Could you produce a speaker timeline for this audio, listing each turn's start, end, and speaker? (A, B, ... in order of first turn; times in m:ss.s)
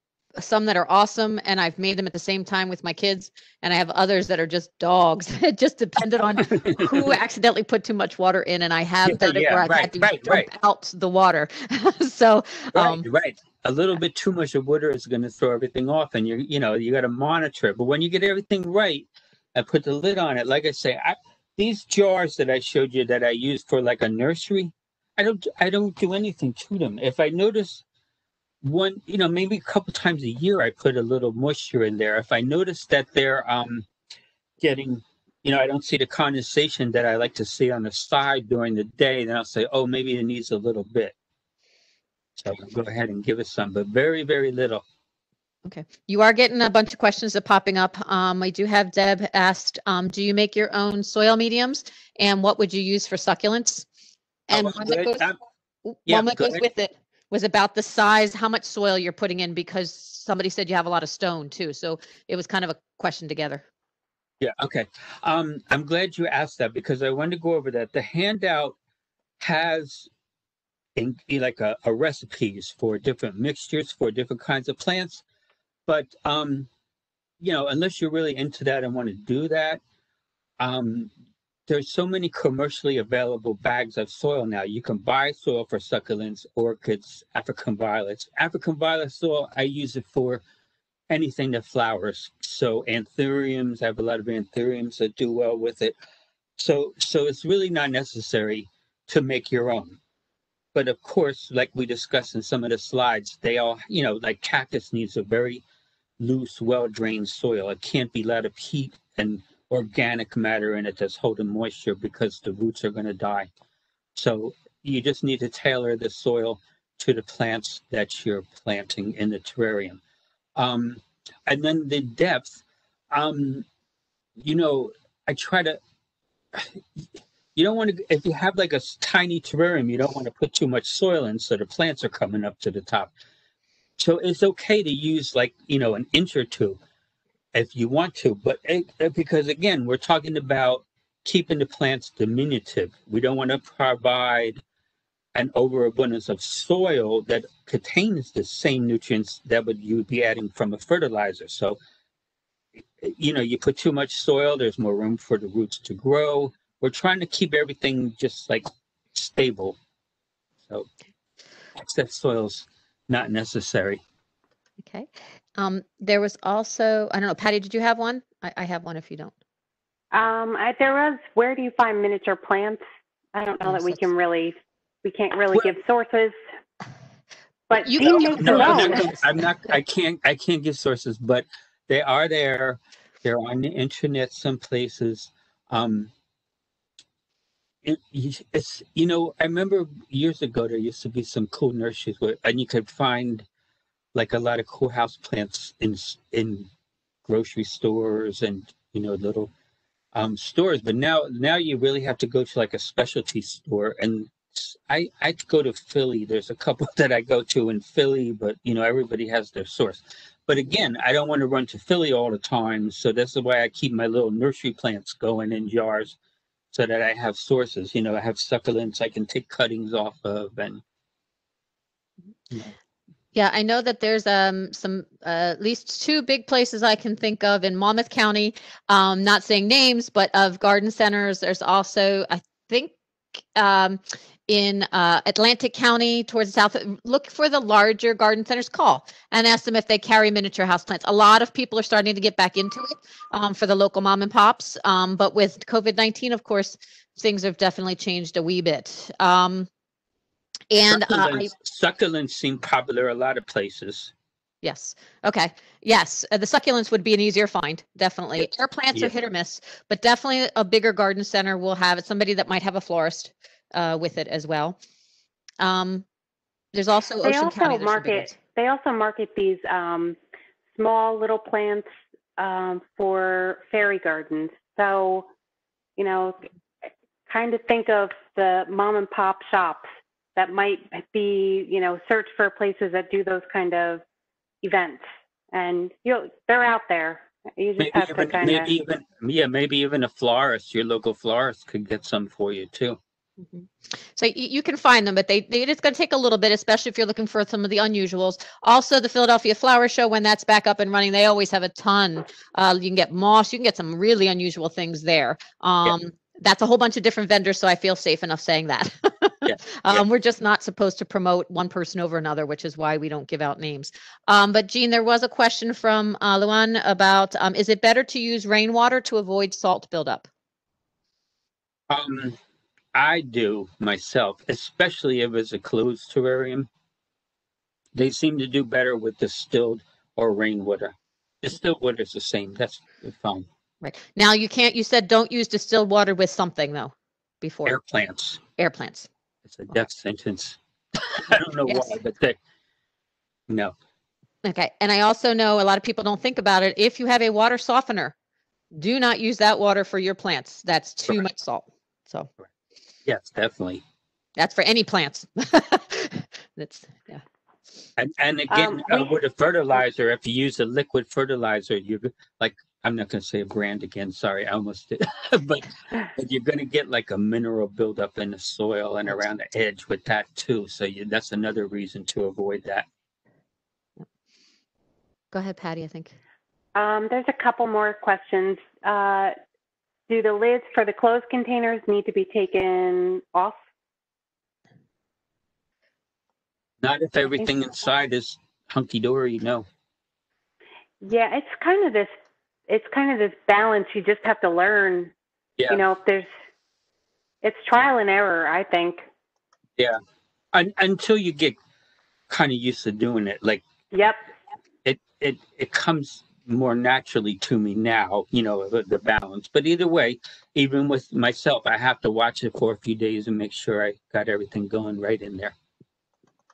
0:00.4-0:13.0 A
0:06.4-0:07.1 B
0:09.0-0:10.5 B
0:12.7-0:27.8 B
0:28.6-0:33.9 B
0:34.6-0:41.1 B
0:42.4-0:44.8 B
0:45.6-0:53.9 A
0:54.5-0:55.2 A
0:54.5-0:55.4 B
0:55.8-1:03.6 A
0:56.0-0:56.6 B
1:04.4-1:08.8 B
1:09.4-1:10.1 B
1:11.0-1:15.2 B
1:15.9-1:16.7 B
1:17.4-1:19.8 B
1:20.6-1:21.1 B
1:21.7-1:30.4 B
1:31.1-1:35.9 B
1:36.6-1:40.0 B
1:40.7-1:45.6 B
1:46.2-1:53.5 B
1:54.1-2:00.0 B
2:00.6-2:03.6 B
2:04.4-2:05.8 B
2:06.5-2:07.0 B
2:07.6-2:13.1 B
2:14.0-2:16.8 B
2:17.5-2:24.6 B
2:25.3-2:31.8 B
2:33.0-2:39.8 B
2:41.8-2:44.0 B
2:44.8-2:49.3 A
2:50.1-2:52.8 C
2:53.3-2:56.3 C
2:53.6-2:54.0 A
2:57.7-2:59.1 C
2:57.8-2:59.2 A
2:58.3-3:06.1 B
3:07.8-3:13.4 B
3:14.1-3:16.7 B
3:17.2-3:19.5 B
3:20.1-3:36.2 B
3:36.7-3:40.8 B
3:43.3-4:09.7 A
4:10.7-4:11.5 A
4:10.9-4:14.1 B
4:14.6-4:24.8 A
4:25.6-4:26.0 A
4:26.7-4:28.3 A
4:27.2-4:30.2 C
4:30.7-4:31.8 C
4:32.4-4:35.3 C
4:36.0-4:36.5 C
4:37.3-4:44.0 C
4:44.6-4:48.7 C
4:47.8-4:53.0 B
4:53.6-5:20.3 A
5:09.4-5:10.0 B
5:21.9-5:22.4 B
5:22.9-5:26.7 B
5:27.9-5:33.5 B
5:33.8-5:37.8 A
5:37.6-5:38.4 B
5:38.6-5:39.1 A
5:39.4-5:42.4 B
5:41.7-5:41.9 A
5:43.5-5:43.7 B
5:44.4-5:48.1 A
5:48.7-5:52.3 A
5:53.0-5:53.8 B
5:54.4-5:57.2 A
5:58.0-6:12.9 B
5:58.5-5:59.1 C
6:15.3-6:16.1 A
6:16.7-6:19.3 C
6:20.1-6:23.6 C
6:26.8-6:29.6 B
6:31.0-6:32.1 C
6:32.7-6:35.1 C
6:35.7-6:36.3 C
6:37.4-6:39.0 C
6:40.5-6:41.6 B
6:42.3-6:43.6 B
6:43.9-6:44.2 C
6:44.8-6:55.5 B